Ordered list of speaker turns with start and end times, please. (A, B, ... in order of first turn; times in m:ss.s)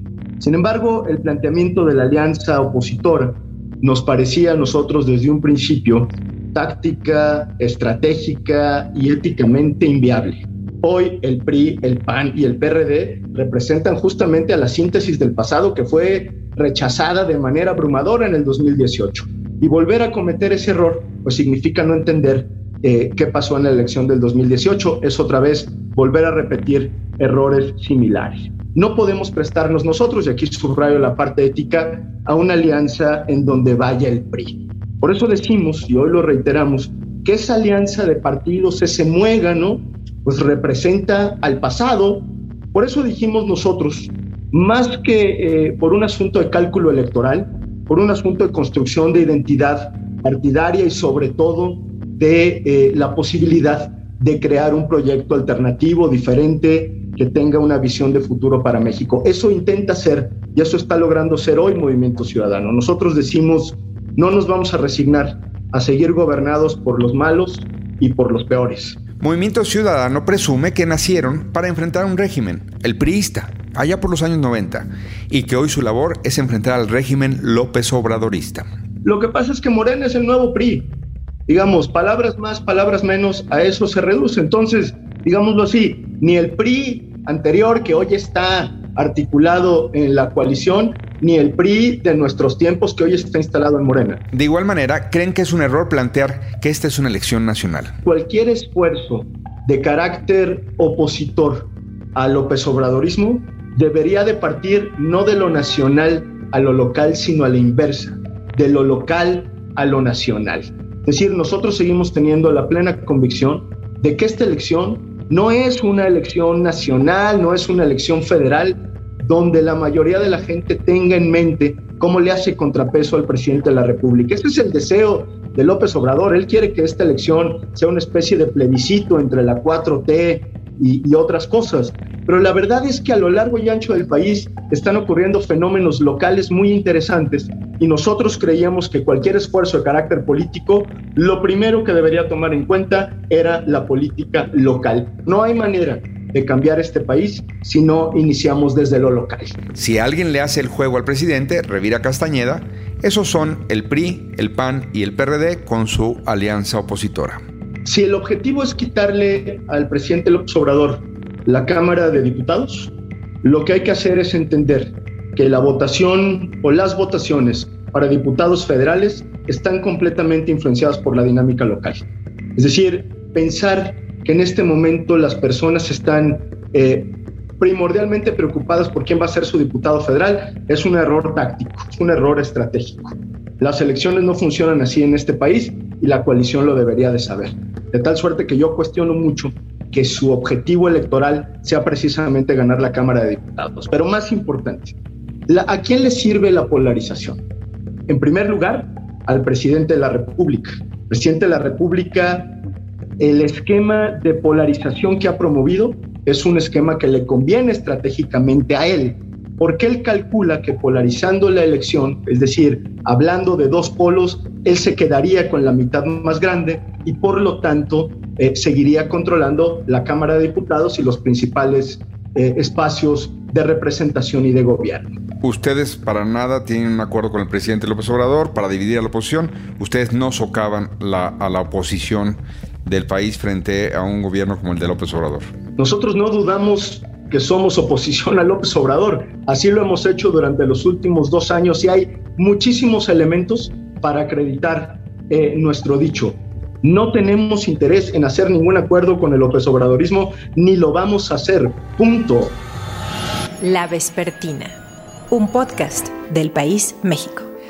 0:00.4-1:09.0 A
1:09.2-1:18.7 B
1:19.0-1:20.9 A
1:21.5-1:34.2 A
1:34.3-1:38.0 B
1:38.0-2:29.6 A
2:29.7-2:37.4 B
2:37.8-2:42.9 A
2:43.4-3:14.9 A
3:15.5-3:17.4 A
3:18.1-3:22.5 A
3:23.2-3:45.2 A
3:45.4-3:55.5 B
3:55.8-4:12.6 A
4:13.6-4:14.8 C
4:15.3-4:17.5 C